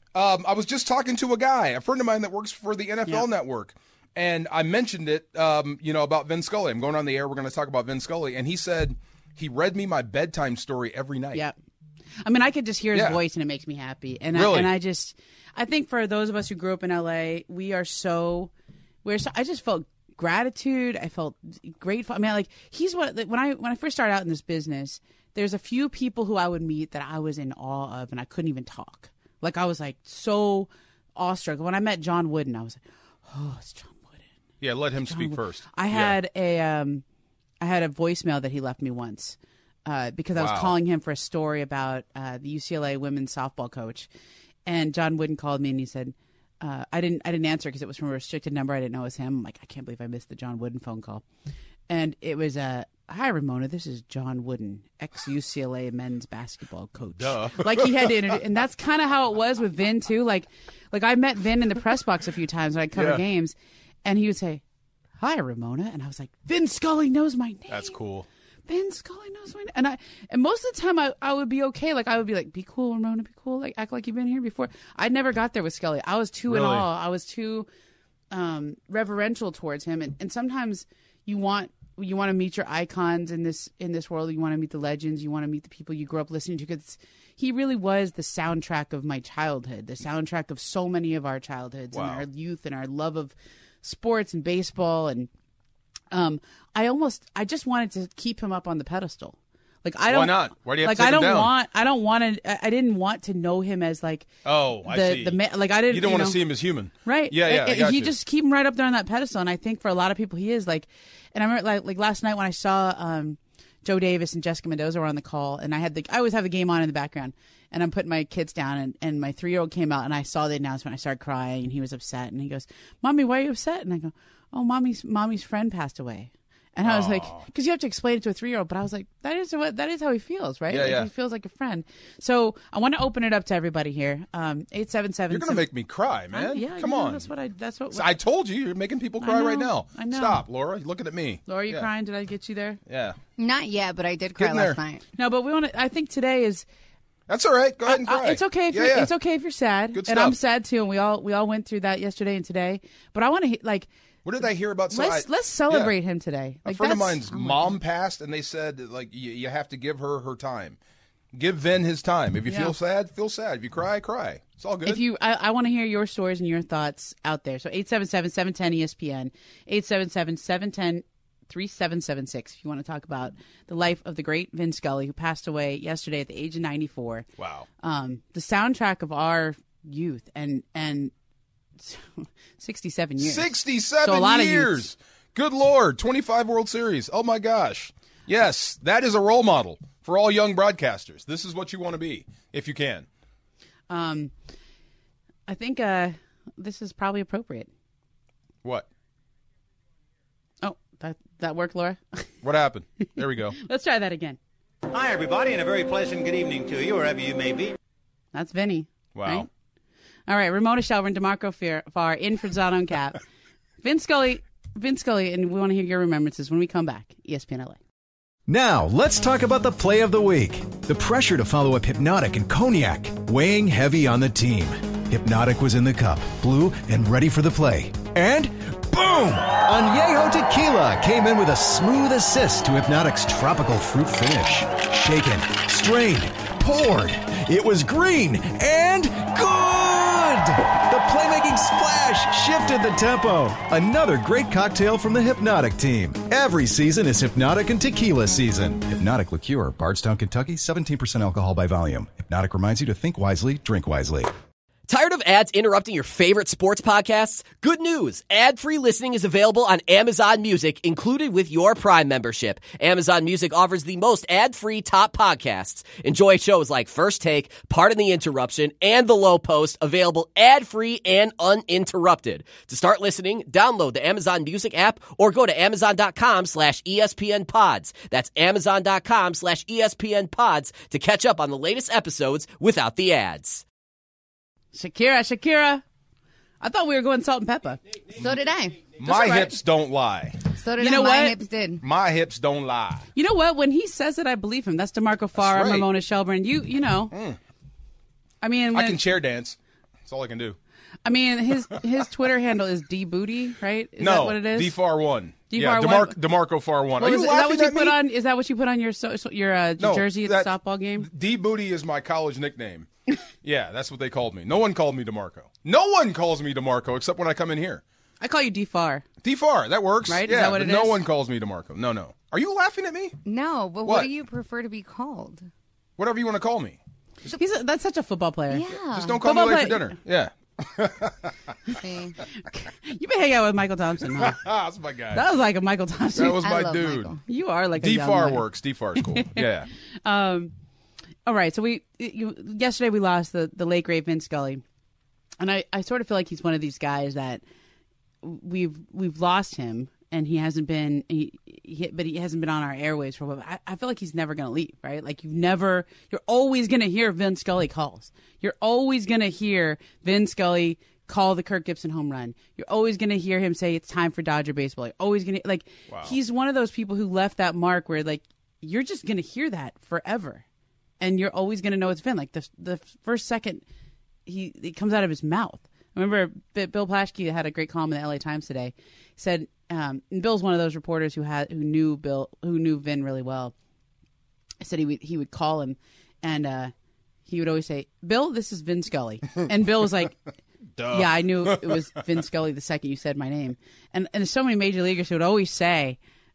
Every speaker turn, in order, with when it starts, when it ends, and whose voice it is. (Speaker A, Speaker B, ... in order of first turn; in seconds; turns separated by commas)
Speaker A: 0.1-11.4, Speaker B: 12.2-18.5, Speaker A: 12.9-13.2, Speaker A: 14.3-14.7, Speaker B: 19.0-34.2, Speaker A: 34.6-36.2, Speaker B: 35.1-37.0, Speaker B: 37.6-44.1, Speaker A: 40.4-40.8, Speaker B: 44.7-51.2, Speaker B: 51.9-63.5, Speaker A: 57.2-58.1, Speaker A: 63.0-63.2, Speaker B: 64.0-64.6, Speaker B: 65.2-68.0, Speaker A: 67.7-68.3, Speaker B: 68.7-77.7, Speaker A: 76.5-76.9, Speaker B: 78.3-95.3, Speaker A: 91.9-92.3, Speaker B: 96.1-106.4, Speaker A: 100.1-101.5, Speaker A: 104.5-108.1, Speaker B: 107.0-135.7, Speaker A: 126.8-127.5, Speaker A: 130.7-131.1, Speaker A: 135.3-137.3, Speaker B: 136.3-138.1, Speaker A: 137.9-141.9, Speaker B: 139.2-140.4, Speaker B: 141.5-142.8, Speaker A: 142.9-143.2, Speaker C: 143.4-145.0, Speaker A: 144.4-144.8, Speaker B: 145.2-146.7, Speaker A: 147.3-149.1, Speaker B: 147.9-153.9, Speaker A: 149.9-150.4, Speaker A: 154.2-155.9, Speaker B: 154.9-157.6, Speaker A: 156.7-160.8, Speaker A: 161.3-165.0, Speaker B: 162.5-162.7, Speaker B: 164.8-177.3, Speaker A: 177.4-177.7, Speaker B: 177.8-181.1, Speaker B: 181.8-184.9, Speaker A: 183.2-193.1, Speaker B: 193.9-194.3, Speaker B: 195.5-197.7, Speaker B: 200.6-202.0, Speaker A: 202.4-203.6, Speaker B: 203.6-204.4, Speaker D: 204.9-206.1, Speaker D: 206.8-207.6, Speaker B: 208.3-209.5, Speaker A: 209.1-209.5, Speaker B: 210.3-213.2, Speaker B: 213.8-217.8, Speaker E: 218.5-254.3, Speaker F: 254.9-283.6, Speaker B: 284.7-285.8, Speaker B: 286.6-287.8, Speaker C: 288.2-288.9, Speaker A: 289.0-290.4, Speaker B: 289.0-289.6, Speaker C: 290.6-291.8, Speaker B: 290.8-291.4, Speaker A: 291.8-293.1, Speaker B: 293.1-297.1, Speaker A: 295.4-295.9, Speaker A: 297.1-297.4, Speaker B: 298.4-299.0, Speaker A: 298.7-300.6, Speaker B: 301.1-304.8, Speaker A: 304.0-308.0, Speaker B: 305.5-306.2, Speaker B: 307.0-311.1, Speaker A: 309.8-312.9, Speaker A: 313.4-317.8, Speaker B: 318.2-319.1, Speaker A: 319.2-323.2, Speaker B: 320.1-321.1, Speaker C: 323.2-325.5, Speaker A: 323.8-324.1, Speaker A: 326.0-326.8, Speaker B: 327.4-328.7, Speaker C: 328.5-329.2, Speaker A: 328.9-331.3, Speaker B: 329.2-329.9, Speaker C: 331.8-332.2, Speaker B: 332.5-334.5, Speaker A: 334.1-335.2, Speaker B: 335.1-338.5, Speaker A: 336.2-337.2, Speaker C: 336.4-337.2, Speaker A: 337.8-339.7, Speaker B: 339.0-339.5, Speaker B: 340.1-340.5, Speaker B: 341.3-344.6, Speaker B: 345.4-347.4, Speaker B: 348.2-370.4, Speaker A: 365.9-366.2, Speaker B: 371.0-373.6, Speaker B: 374.3-383.5, Speaker B: 384.6-386.7, Speaker B: 387.3-390.1, Speaker A: 390.8-391.8, Speaker B: 390.9-396.0